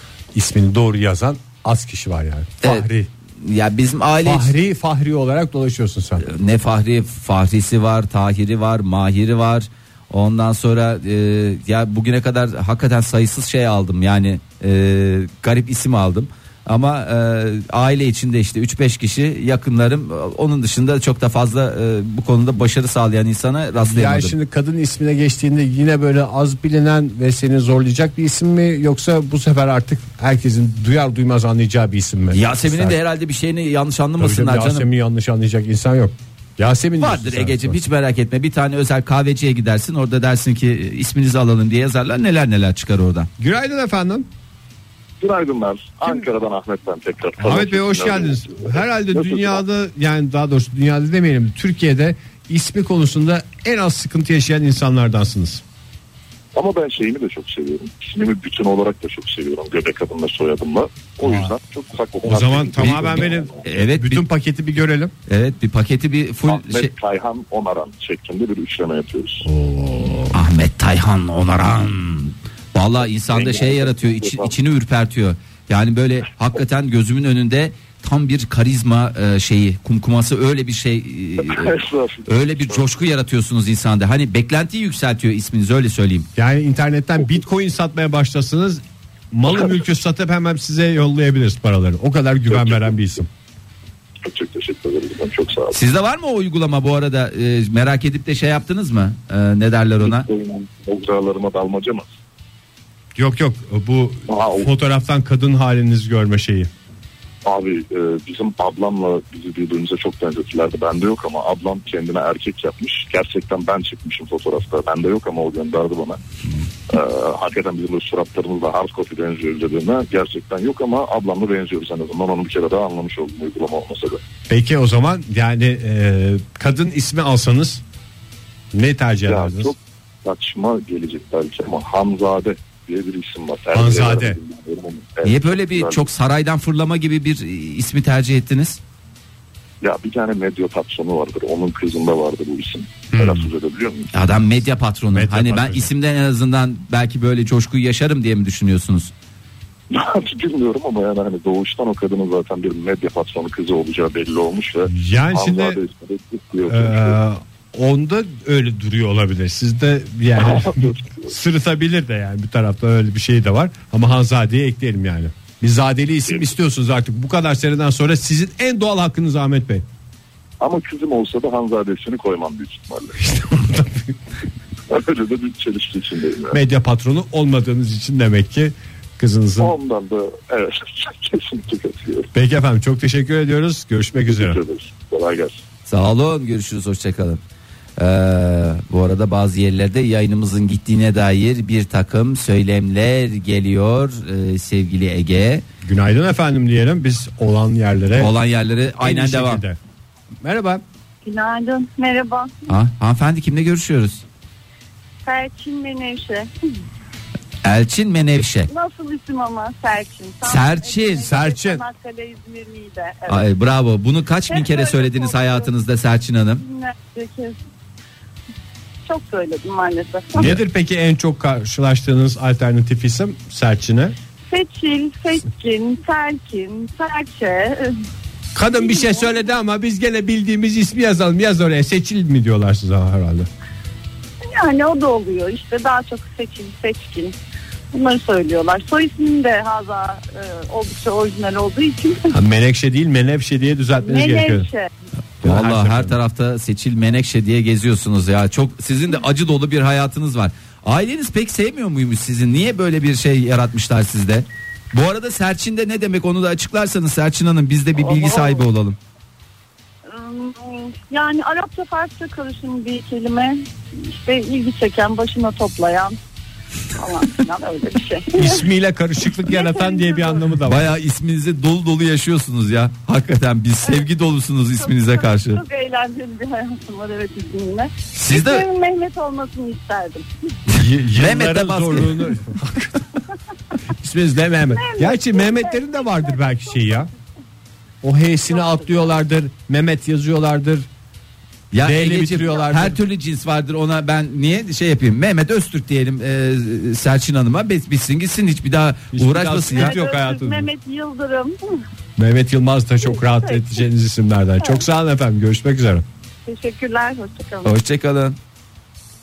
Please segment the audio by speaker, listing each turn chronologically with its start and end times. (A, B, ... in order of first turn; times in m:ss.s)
0:00.3-0:03.1 A
0:02.6-0:02.9 B
0:03.4-0:04.5 B
0:04.2-0:06.3 A
0:06.2-0:24.4 B
0:23.8-0:33.0 A
0:32.3-0:34.9 B
0:34.2-0:37.8 A
0:37.0-0:43.3 B
0:43.4-0:44.3 A
0:45.2-0:49.6 C
0:47.4-0:55.6 A
0:56.6-1:03.6 C
1:01.2-1:01.5 A
1:02.2-1:05.1 A
1:02.8-1:04.2 B
1:05.3-1:06.9 B
1:06.5-1:09.5 C
1:09.4-1:10.4 A
1:10.3-1:21.8 B
1:13.3-1:14.5 C
1:21.4-1:22.9 C
1:22.3-1:26.3 B
1:26.4-1:33.3 A
1:32.5-1:32.8 C
1:34.2-1:35.8 C
1:35.7-1:40.3 B
1:40.0-1:42.1 C
1:43.2-1:46.7 A
1:44.3-1:44.7 C
1:47.4-1:56.2 C
1:56.9-2:04.2 C
2:04.5-2:07.8 A
2:08.7-2:09.7 A
2:09.3-2:16.1 C
2:13.7-2:14.4 A
2:15.2-2:18.8 B
2:19.8-2:24.1 C
2:23.1-2:23.5 A
2:24.1-2:29.1 B
2:25.1-2:25.9 A
2:29.9-2:37.2 C
2:34.9-2:35.8 A
2:36.7-2:49.8 A
2:40.4-2:41.2 C
2:50.6-2:53.2 C
2:53.2-2:54.1 A
2:54.9-2:56.6 C
2:56.5-2:59.8 A
2:59.6-3:02.3 C
3:02.3-3:04.6 A
3:04.3-3:05.6 C
3:05.9-3:07.4 B
3:08.0-3:15.6 B
3:15.8-3:18.3 A
3:18.2-3:19.6 B
3:19.0-3:19.8 A
3:20.4-3:20.8 A
3:21.2-3:22.5 D
3:22.7-3:24.2 B
3:25.2-3:26.5 D
3:27.6-3:28.7 B
3:28.7-3:33.5 D
3:30.4-3:31.3 B
3:31.2-3:31.8 A
3:33.3-3:36.6 B
3:34.5-3:35.7 D
3:36.6-3:37.6 D
3:39.0-3:40.6 D
3:40.4-3:44.2 A
3:44.5-3:48.0 D
3:48.6-3:53.5 A
3:48.8-3:49.4 D
3:54.4-3:57.4 D
3:57.9-4:02.4 D
4:02.3-4:04.7 A
4:04.0-4:04.9 D
4:05.4-4:06.2 A
4:05.4-4:19.0 B
4:18.0-4:18.6 D
4:20.1-4:26.2 D
4:27.0-4:28.7 D
4:28.4-4:30.9 A
4:29.4-4:30.5 D
4:30.7-4:35.6 B
4:34.8-4:40.3 D
4:38.1-4:38.7 B
4:40.7-4:42.2 B
4:40.7-4:43.0 A
4:44.0-4:47.1 A
4:44.6-4:47.1 D
4:48.0-4:50.9 A
4:51.7-5:00.0 B
4:51.8-4:53.0 A
4:59.1-5:00.7 A
4:59.7-5:01.8 D
5:02.2-5:06.0 A
5:03.1-5:03.8 D
5:06.4-5:07.8 D
5:07.6-5:08.4 B